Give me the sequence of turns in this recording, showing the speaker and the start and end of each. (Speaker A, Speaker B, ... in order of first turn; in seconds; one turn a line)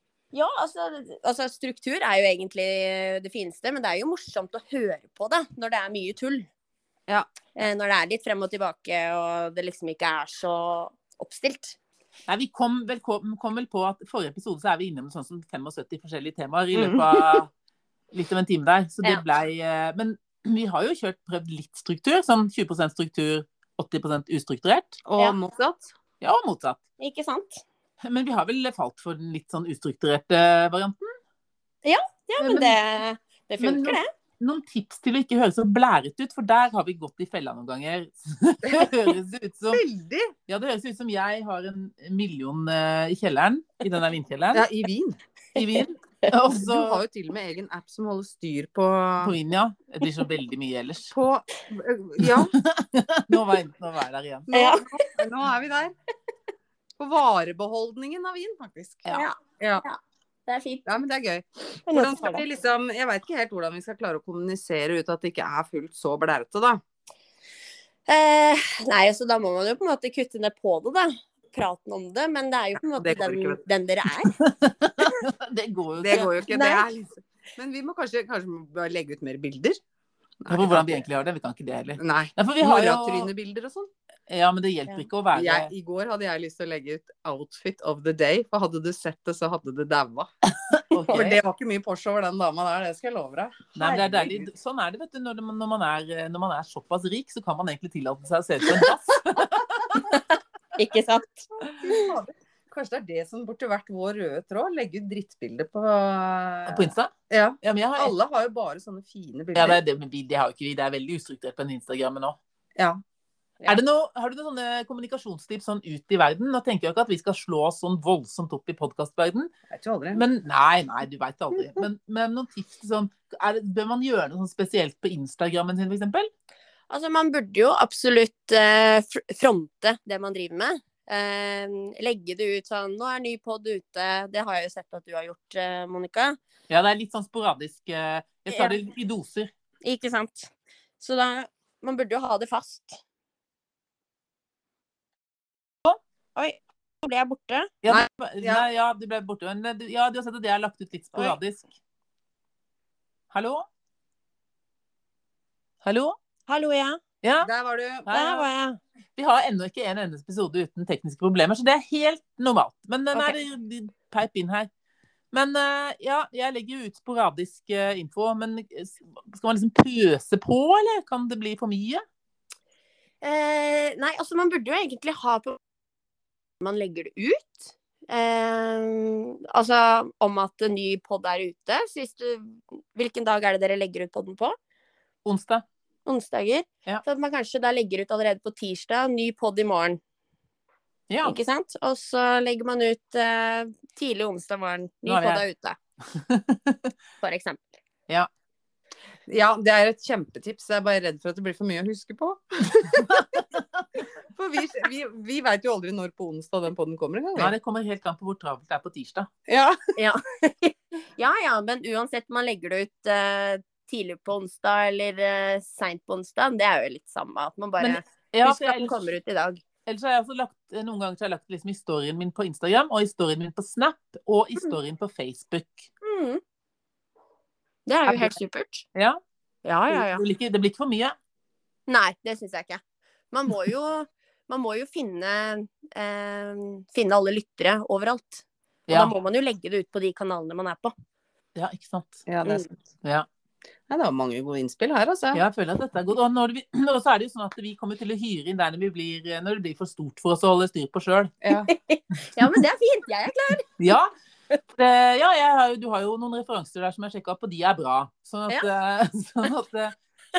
Speaker A: 0.3-6.5
Speaker A: 7.5-11.8
Speaker B: 12.3-17.5
Speaker C: 16.7-17.0
Speaker B: 18.1-25.0
Speaker C: 25.1-25.9
Speaker B: 26.2-26.8
Speaker A: 27.0-27.6
Speaker B: 28.0-31.1
Speaker A: 31.8-34.1
Speaker B: 32.4-32.8
Speaker B: 33.6-39.8
Speaker C: 39.7-40.3
Speaker B: 40.5-44.6
Speaker C: 44.5-45.2
Speaker B: 45.5-47.0
Speaker C: 46.6-49.3
Speaker B: 49.2-51.1
Speaker C: 51.1-52.5
Speaker B: 52.2-54.5
Speaker C: 54.5-55.9
Speaker A: 54.5-55.1
Speaker C: 57.0-59.8
Speaker A: 59.1-60.8
Speaker C: 60.9-66.8
Speaker A: 61.9-62.4
Speaker A: 68.1-74.3
Speaker C: 73.0-73.6
Speaker B: 74.4-76.3
Speaker C: 76.0-79.8
Speaker A: 76.5-76.8
Speaker C: 80.4-81.0
Speaker B: 80.5-83.3
Speaker C: 82.0-83.9
Speaker B: 84.3-85.7
Speaker C: 85.3-90.3
Speaker B: 90.7-91.3
Speaker A: 91.1-91.4
Speaker C: 91.1-94.5
Speaker B: 93.8-100.2
Speaker A: 100.8-102.1
Speaker C: 101.8-109.8
Speaker B: 106.7-108.1
Speaker B: 109.5-112.4
Speaker C: 112.8-113.0
Speaker B: 113.7-119.5
Speaker C: 119.7-120.2
Speaker B: 120.1-126.3
Speaker A: 126.9-136.4
Speaker B: 136.7-139.5
Speaker A: 139.8-143.0
Speaker A: 146.3-147.7
Speaker B: 147.8-151.7
Speaker C: 147.9-148.6
Speaker B: 153.3-153.7
Speaker B: 155.8-156.2
Speaker A: 156.5-157.0
Speaker B: 157.2-157.5
Speaker C: 157.4-158.1
Speaker B: 158.1-158.5
Speaker A: 158.1-158.8
Speaker B: 159.2-164.7
Speaker B: 165.3-172.0
Speaker A: 173.2-175.6
Speaker A: 176.6-184.6
Speaker B: 185.2-185.6
Speaker A: 186.1-190.0
Speaker B: 191.1-191.3
Speaker A: 191.2-195.8
Speaker B: 195.1-195.4
Speaker B: 196.1-196.9
Speaker A: 197.2-197.6
Speaker C: 199.3-203.3
Speaker B: 203.1-203.4
Speaker C: 204.3-207.5
Speaker B: 207.3-209.3
Speaker C: 209.5-209.8
Speaker A: 209.9-219.6
Speaker B: 217.8-219.1
Speaker B: 219.8-225.9
Speaker A: 226.0-226.4
Speaker A: 227.8-228.9
Speaker B: 228.1-228.3
Speaker A: 229.6-230.2
Speaker B: 229.9-231.2
Speaker A: 231.9-232.8
Speaker A: 233.3-240.9
Speaker B: 238.9-239.1
Speaker B: 241.5-242.2
Speaker C: 242.3-242.7
Speaker C: 243.9-245.4
Speaker B: 245.3-251.3
Speaker C: 251.4-251.7
Speaker A: 251.7-253.7
Speaker B: 253.8-254.1
Speaker B: 254.7-259.9